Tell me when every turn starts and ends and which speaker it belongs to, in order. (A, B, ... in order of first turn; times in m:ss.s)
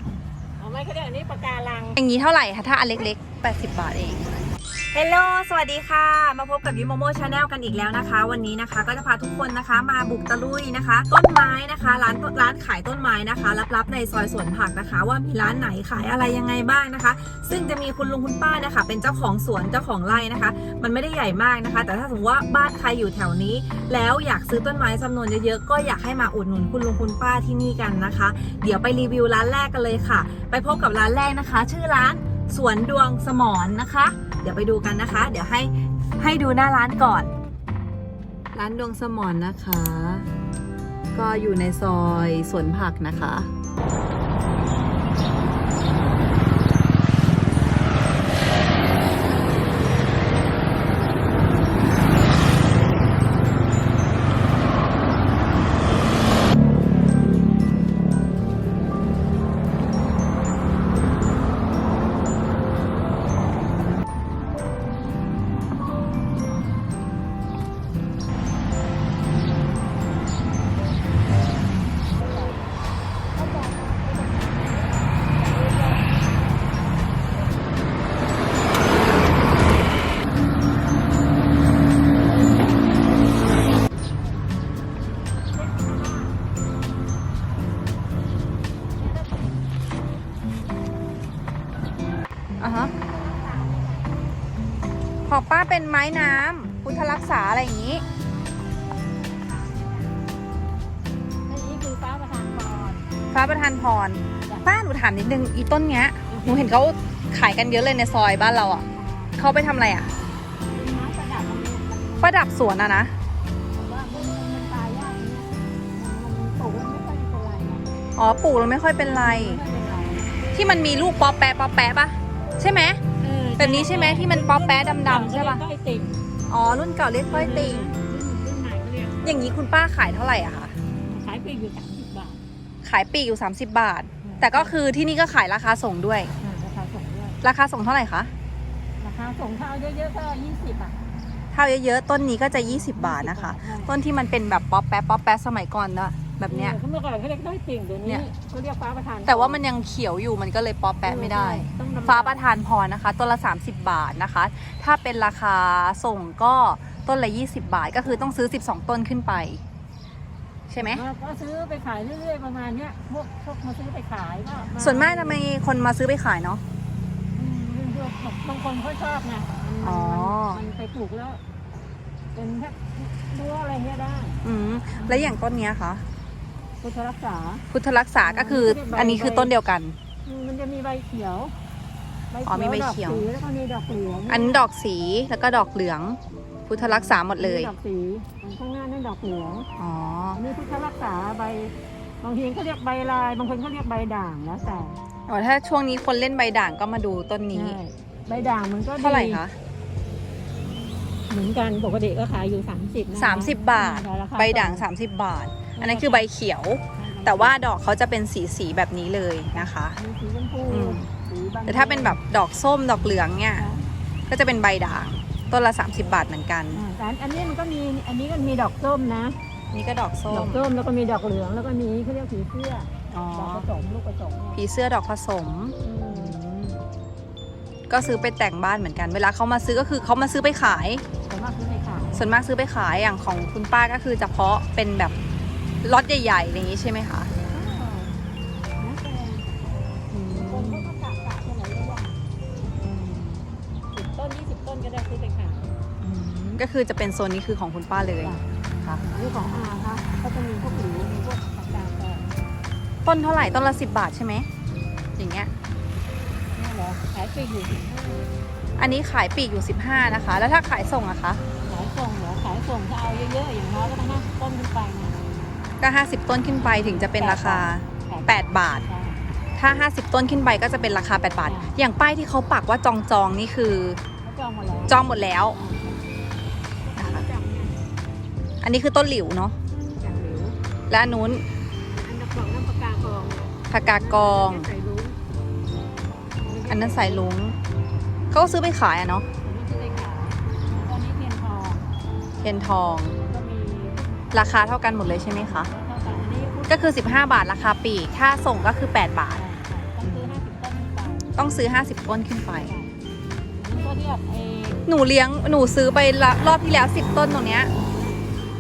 0:00.6-0:02.0 A
0:02.0-0:04.3 B
0:04.9-0:37.3 B
0:38.5-0:40.3 B
0:41.1-0:43.5 B
1:13.3-1:16.1 A
1:25.5-1:26.3 A
1:29.0-1:29.6 A
1:32.6-1:32.9 B
1:33.0-1:34.3 A
1:35.2-1:38.0 B
1:38.2-1:40.4 A
1:41.4-1:43.1 A
1:43.3-1:48.8 B
1:46.3-1:46.7 A
1:49.0-1:49.4 A
1:49.4-1:50.1 B
1:50.7-1:52.4 A
1:52.2-1:53.1 B
1:53.7-1:57.8 A
1:58.2-1:59.6 B
1:59.0-2:00.3 A
2:00.5-2:03.0 B
2:03.2-2:06.2 A
2:03.6-2:05.6 B
2:06.5-2:07.9 B
2:07.3-2:09.3 A
2:09.2-2:10.8 B
2:11.0-2:12.4 A
2:12.8-2:16.3 B
2:14.2-2:14.7 A
2:16.4-2:17.4 A
2:17.4-2:18.3 B
2:19.0-2:21.0 A
2:21.5-2:26.8 B
2:22.5-2:23.9 A
2:26.5-2:29.6 A
2:29.2-2:39.6 B
2:31.0-2:32.4 A
2:38.0-2:38.3 A
2:40.7-2:41.0 B
2:40.8-2:45.4 A
2:44.7-2:46.6 B
2:47.4-2:51.4 A
2:49.8-2:50.6 B
2:52.3-2:54.4 A
2:54.4-2:56.0 B
2:54.9-2:55.4 A
2:56.8-2:57.6 A
2:57.7-3:00.0 B
2:58.2-2:59.5 A
3:00.2-3:01.5 A
3:02.3-3:04.6 A
3:02.5-3:03.3 B
3:04.3-3:07.7 B
3:06.7-3:09.7 A
3:09.8-3:10.4 B
3:10.3-3:15.0 A
3:15.3-3:17.8 B
3:17.5-3:19.4 A
3:19.0-3:19.6 B
3:21.3-3:24.8 A
3:23.1-3:30.0 B
3:25.8-3:26.3 A
3:27.0-3:27.6 A
3:29.5-3:32.2 A
3:30.7-3:31.1 B
3:31.7-3:33.7 B
3:33.6-3:33.9 A
3:34.3-3:36.8 B
3:36.7-3:39.4 A
3:39.7-3:40.6 B
3:40.3-3:44.6 A
3:43.1-3:43.7 B
3:44.6-3:46.8 B
3:45.8-3:46.4 A
3:47.9-3:51.0 B
3:51.2-3:52.2 A
3:52.1-3:55.1 B
3:55.8-3:57.3 B
3:57.5-3:58.1 A
3:58.8-3:59.5 A
4:00.1-4:00.9 B
4:00.3-4:02.2 A
4:02.8-4:03.4 B
4:03.9-4:05.7 A
4:06.0-4:09.0 B
4:09.1-4:12.3 A
4:13.0-4:14.5 B
4:15.2-4:15.5 B
4:16.5-4:18.3 A
4:18.8-4:21.4 B
4:21.6-4:25.2 A
4:25.8-4:28.9 B
4:26.6-4:29.2 A
4:29.6-4:34.0 B
4:31.4-4:31.7 A
4:34.2-4:35.0 A
4:34.9-4:35.6 B
4:35.5-4:36.0 A
4:36.8-4:37.8 A
4:37.0-4:37.3 B
4:38.6-4:39.6 B
4:40.0-4:40.6 A
4:40.9-4:41.4 B
4:41.9-4:45.2 A
4:43.7-4:44.7 B
4:46.4-4:47.3 A
4:46.7-4:47.6 B
4:48.3-4:49.3 B
4:49.4-4:51.9 A
4:52.4-4:53.2 B
4:53.2-4:54.6 A
4:54.3-4:55.7 B
4:55.2-4:57.1 A
4:56.7-4:59.4 B
4:59.3-5:01.3 A
5:00.0-5:00.3 B
5:01.4-5:02.7 B
5:02.6-5:02.9 A
5:03.6-5:04.8 A
5:04.8-5:07.7 B
5:07.8-5:08.3 A